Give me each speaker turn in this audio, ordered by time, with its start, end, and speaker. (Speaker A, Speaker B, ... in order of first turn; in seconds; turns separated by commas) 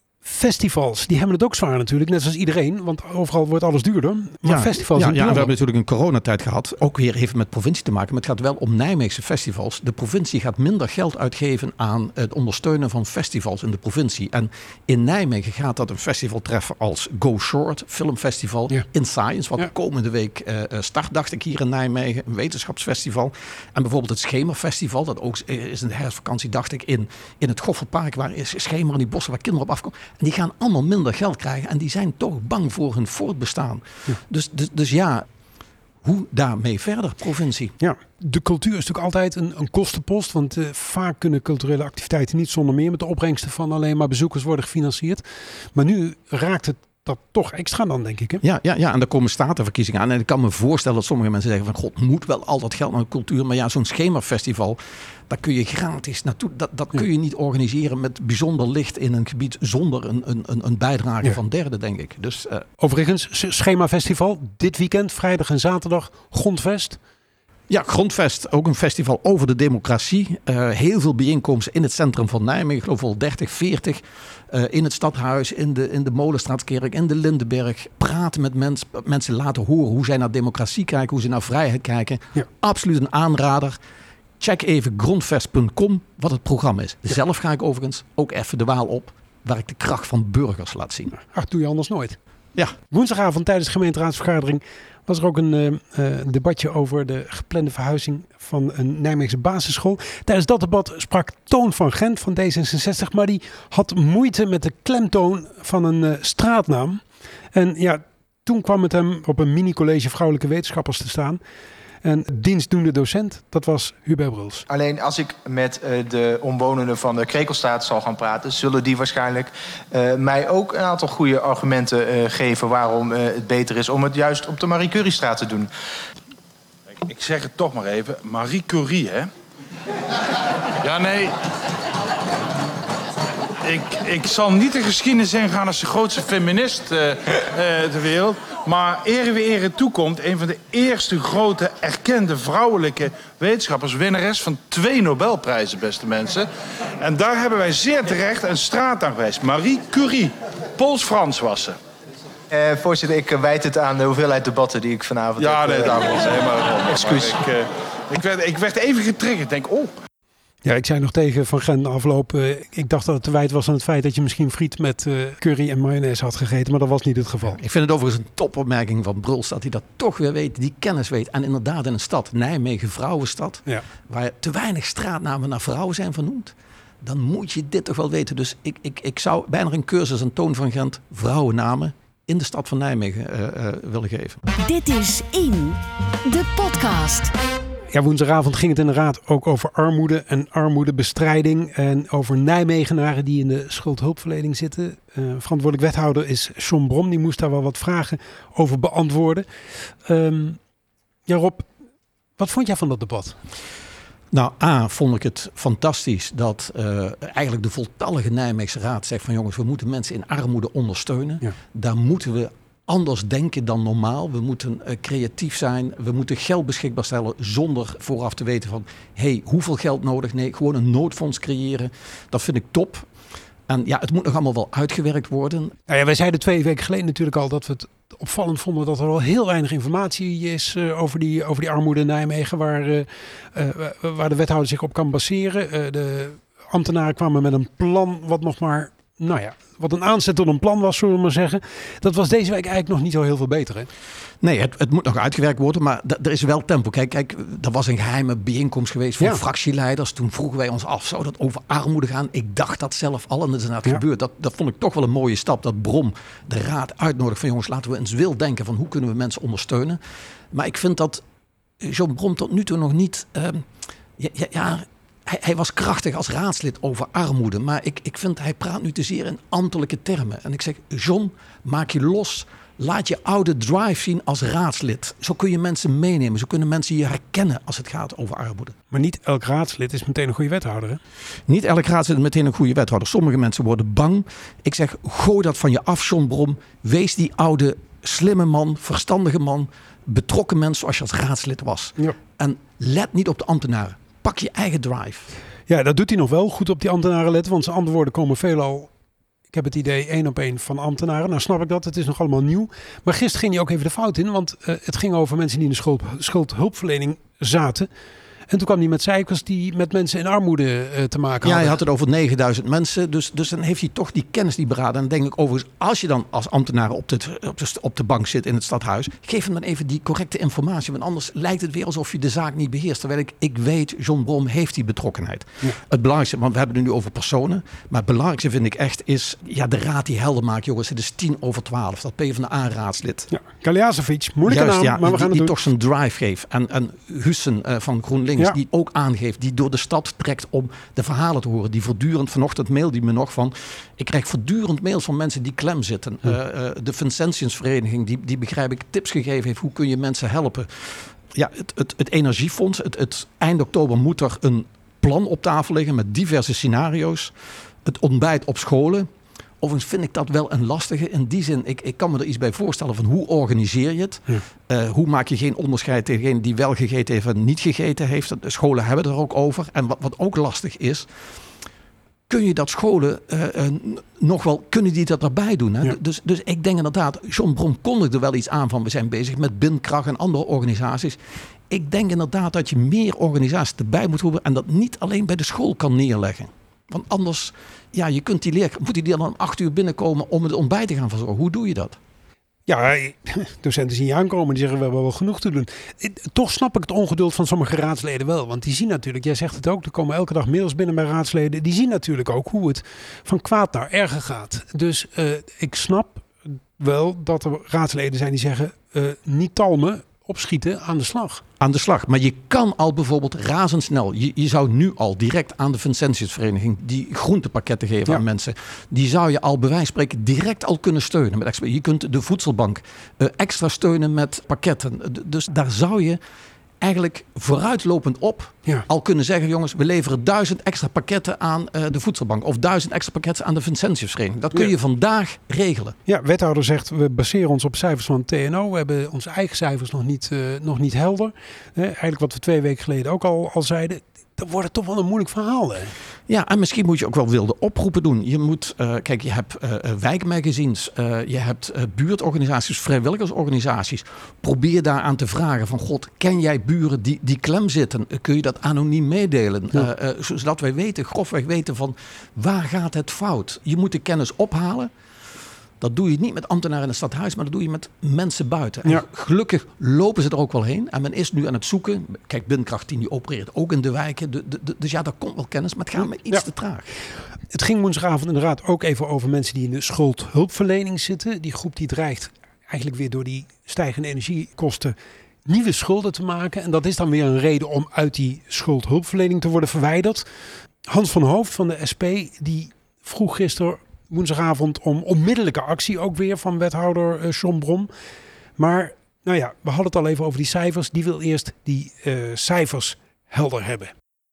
Speaker A: 0.2-5.5, Speaker B: 4.4-35.3, Speaker B: 36.0-37.7, Speaker A: 37.8-48.4, Speaker B: 48.4-62.7, Speaker A: 62.8-67.0, Speaker B: 67.7-83.8, Speaker B: 84.4-91.2, Speaker A: 91.3-92.2, Speaker A: 92.9-107.0, Speaker A: 107.5-111.4, Speaker A: 112.0-114.7, Speaker C: 114.7-125.7, Speaker D: 127.0-129.3, Speaker D: 130.8-131.3, Speaker D: 133.6-146.5, Speaker D: 147.0-151.8, Speaker C: 152.5-157.4, Speaker D: 155.4-159.9, Speaker A: 160.7-167.6, Speaker B: 167.5-184.4, Speaker E: 184.6-187.3, Speaker A: 187.9-199.5, Speaker A: 200.1-200.6, Speaker A: 201.3-201.7, Speaker A: 202.4-203.4, Speaker B: 204.3-223.1, Speaker B: 223.7-225.8, Speaker A: 225.9-243.9, Speaker B: 244.4-260.0, Speaker B: 260.5-261.2, Speaker B: 261.8-278.8, Speaker A: 278.9-281.0, Speaker B: 281.5-295.3, Speaker A: 295.7-298.9, Speaker A: 299.5-307.9, Speaker A: 308.5-311.8, Speaker B: 311.4-333.3, Speaker A: 333.3-335.5, Speaker B: 334.5-359.1, Speaker B: 359.6-371.1, Speaker B: 372.3-381.2, Speaker B: 381.7-392.0, Speaker A: 392.7-411.4, Speaker B: 411.6-426.2, Speaker B: 426.8-435.9, Speaker A: 436.1-445.9, Speaker B: 446.3-464.9, Speaker B: 465.8-476.9, Speaker A: 477.5-484.9, Speaker A: 485.5-490.2, Speaker A: 490.9-497.9, Speaker A: 498.6-503.9